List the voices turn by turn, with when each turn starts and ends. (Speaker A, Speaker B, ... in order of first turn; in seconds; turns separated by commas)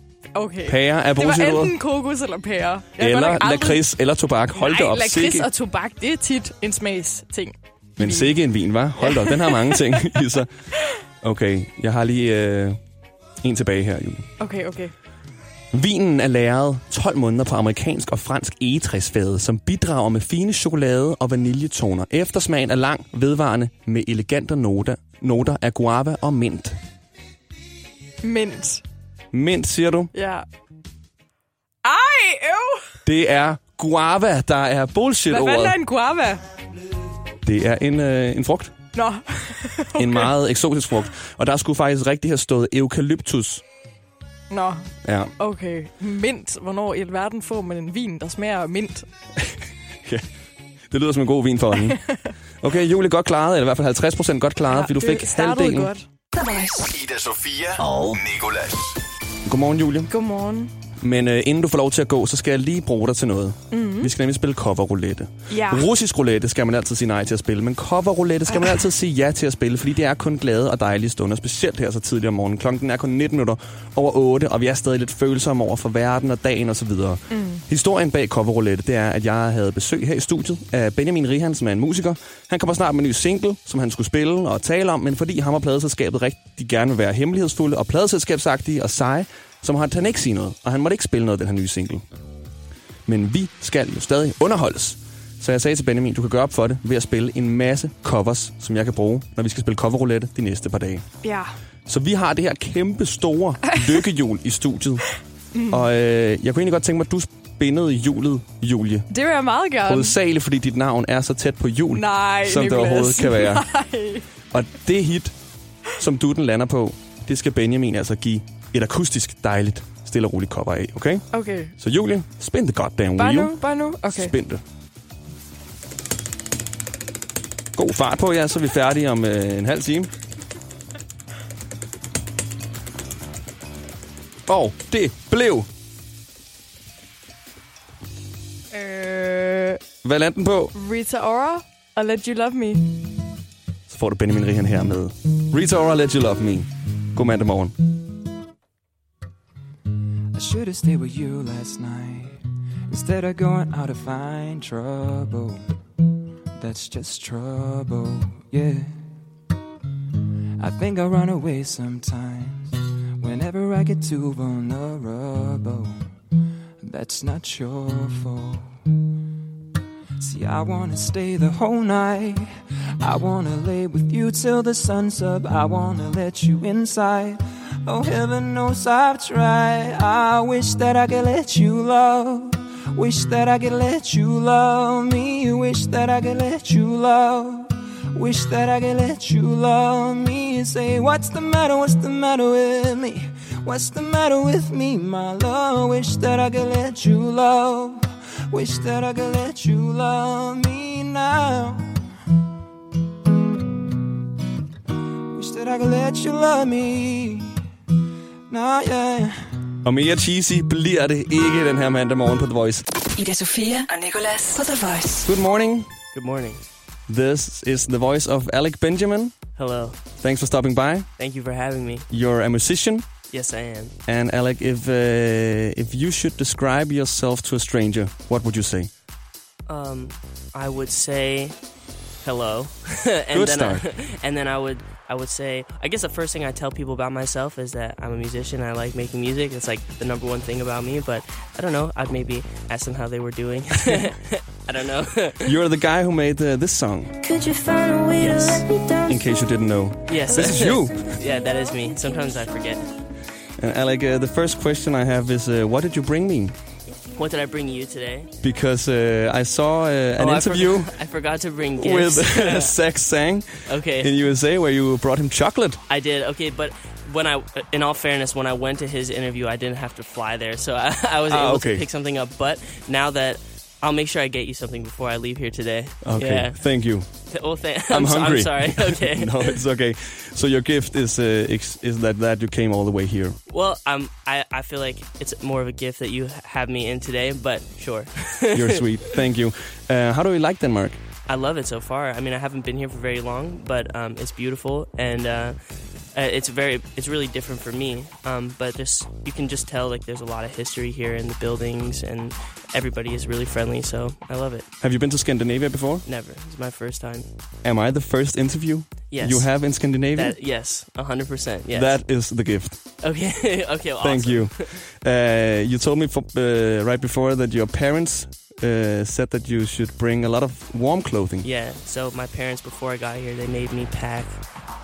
Speaker A: 0.3-3.9, Speaker B: 0.7-1.8, Speaker B: 3.0-5.5, Speaker A: 4.5-8.4, Speaker B: 8.0-10.5, Speaker A: 9.0-10.2, Speaker B: 11.2-12.8, Speaker B: 13.4-14.3, Speaker A: 14.4-14.9, Speaker B: 15.7-26.8, Speaker A: 28.2-28.8, Speaker B: 29.3-30.1, Speaker A: 30.1-30.5, Speaker A: 31.8-33.0, Speaker B: 33.0-35.8, Speaker A: 35.3-36.4, Speaker B: 37.4-38.8, Speaker A: 39.0-40.4, Speaker B: 40.0-43.6, Speaker A: 44.5-49.1, Speaker B: 45.0-45.3, Speaker B: 49.4-50.2, Speaker B: 50.9-52.0, Speaker A: 51.9-52.2, Speaker B: 52.6-55.9, Speaker A: 54.7-56.1, Speaker C: 56.4-56.7, Speaker D: 56.9-59.0, Speaker B: 59.5-60.1, Speaker A: 60.1-60.7, Speaker B: 61.0-92.0, Speaker A: 63.7-64.1, Speaker A: 65.5-65.9, Speaker A: 77.3-77.6, Speaker B: 93.1-101.1, Speaker A: 101.2-101.5, Speaker B: 101.9-105.1, Speaker A: 105.5-105.8, Speaker B: 105.7-109.1, Speaker A: 109.1-110.2, Speaker B: 109.8-113.7, Speaker A: 111.9-114.2, Speaker B: 114.5-115.4, Speaker B: 116.0-124.6, Speaker A: 121.3-121.8, Speaker A: 123.2-124.3, Speaker B: 127.8-130.1, Speaker B: 134.5-135.7, Speaker A: 138.7-139.8, Speaker B: 140.0-140.7, Speaker A: 140.7-143.1, Speaker B: 143.9-147.8, Speaker E: 150.3-155.6, Speaker E: 156.6-158.9, Speaker E: 160.6-166.1, Speaker E: 166.8-168.8, Speaker E: 170.2-201.9, Speaker E: 205.3-207.6, Speaker E: 208.5-209.4, Speaker B: 209.8-212.9, Speaker C: 213.2-215.2, Speaker B: 215.3-215.9, Speaker F: 216.1-216.6, Speaker B: 217.1-219.4, Speaker F: 219.6-220.0, Speaker B: 220.2-221.1, Speaker F: 221.2-222.1, Speaker B: 222.1-223.1, Speaker F: 223.3-224.0, Speaker B: 224.1-228.9, Speaker F: 229.7-231.6, Speaker F: 232.2-245.5, Speaker B: 233.3-233.8, Speaker B: 245.4-247.2, Speaker G: 247.2-249.3, Speaker F: 248.2-248.7, Speaker B: 249.1-251.1, Speaker F: 250.1-252.9, Speaker G: 252.1-252.4, Speaker B: 253.6-256.6, Speaker F: 257.1-258.3, Speaker B: 258.4-260.9, Speaker F: 260.2-262.8, Speaker B: 261.8-265.8, Speaker F: 263.7-264.1, Speaker F: 265.9-276.6, Speaker B: 271.3-271.9, Speaker B: 276.0-277.1, Speaker F: 277.3-279.6, Speaker B: 277.9-283.4, Speaker F: 283.5-288.9, Speaker B: 288.5-291.0, Speaker F: 291.3-295.6, Speaker F: 296.1-304.7, Speaker B: 304.8-306.1, Speaker F: 306.1-307.3, Speaker B: 307.6-310.4, Speaker F: 309.1-309.5, Speaker F: 310.1-312.0, Speaker B: 311.7-312.8, Speaker F: 313.0-314.8, Speaker B: 314.0-321.5, Speaker F: 321.4-324.4